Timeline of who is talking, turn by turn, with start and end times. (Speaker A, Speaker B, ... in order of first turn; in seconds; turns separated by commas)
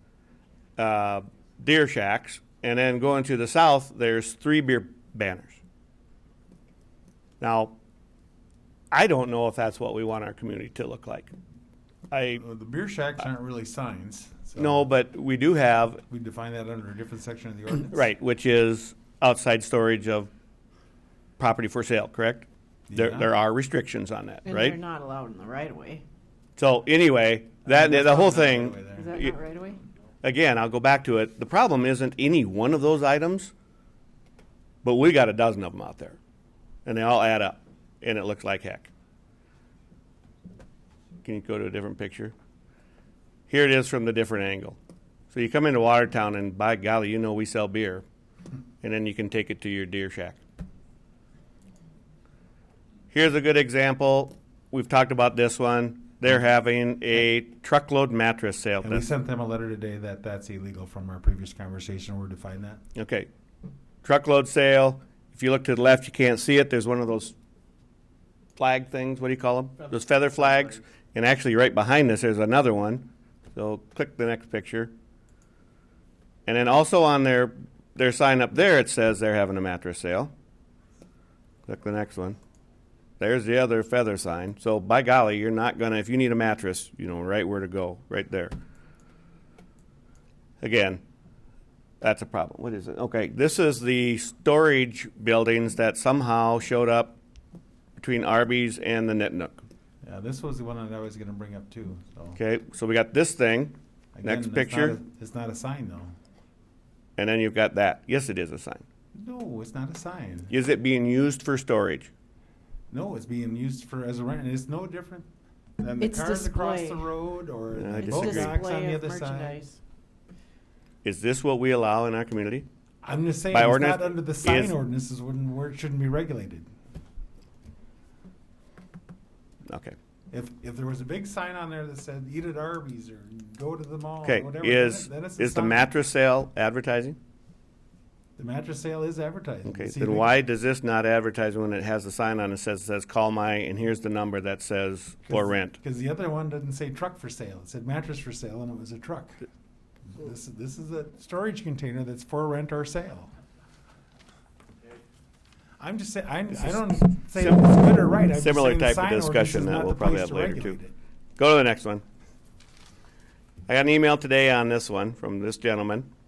Speaker A: 0.8-5.6, Speaker A: 7.4-7.8, Speaker A: 8.9-11.3, Speaker A: 12.1-12.4, Speaker B: 12.4-14.9, Speaker A: 14.6-16.0, Speaker B: 16.1-18.1, Speaker A: 17.9-20.3, Speaker A: 21.4-24.8, Speaker B: 22.9-23.3, Speaker C: 24.4-26.0, Speaker A: 26.6-29.3, Speaker B: 27.6-29.1, Speaker C: 28.9-29.8, Speaker A: 30.2-33.5, Speaker A: 34.8-36.2, Speaker A: 36.8-38.9, Speaker A: 41.2-42.3, Speaker A: 43.5-44.8, Speaker A: 45.3-48.0, Speaker A: 48.8-50.4, Speaker A: 53.1-59.0, Speaker B: 58.8-62.8, Speaker A: 62.9-63.3, Speaker A: 64.0-67.3, Speaker A: 68.6-74.9, Speaker A: 76.5-80.3, Speaker A: 81.7-82.4, Speaker A: 83.2-88.5, Speaker A: 90.6-91.0, Speaker A: 92.0-97.2, Speaker A: 98.0-99.6, Speaker B: 100.0-102.4, Speaker A: 102.3-105.0, Speaker B: 104.1-106.1, Speaker A: 107.2-108.8, Speaker B: 109.1-110.5, Speaker A: 110.5-112.1, Speaker B: 112.9-115.3, Speaker B: 115.8-119.6, Speaker C: 116.0-117.1, Speaker A: 117.7-118.5, Speaker C: 118.0-119.8, Speaker A: 121.0-122.7, Speaker B: 123.0-126.7, Speaker A: 123.5-124.7, Speaker A: 129.7-129.9, Speaker B: 130.3-135.9, Speaker A: 134.2-137.2, Speaker B: 138.4-140.3, Speaker A: 139.7-145.8, Speaker B: 145.3-149.5, Speaker B: 150.1-153.3, Speaker B: 155.8-160.9, Speaker A: 156.6-160.8, Speaker A: 161.4-162.0, Speaker A: 163.7-166.1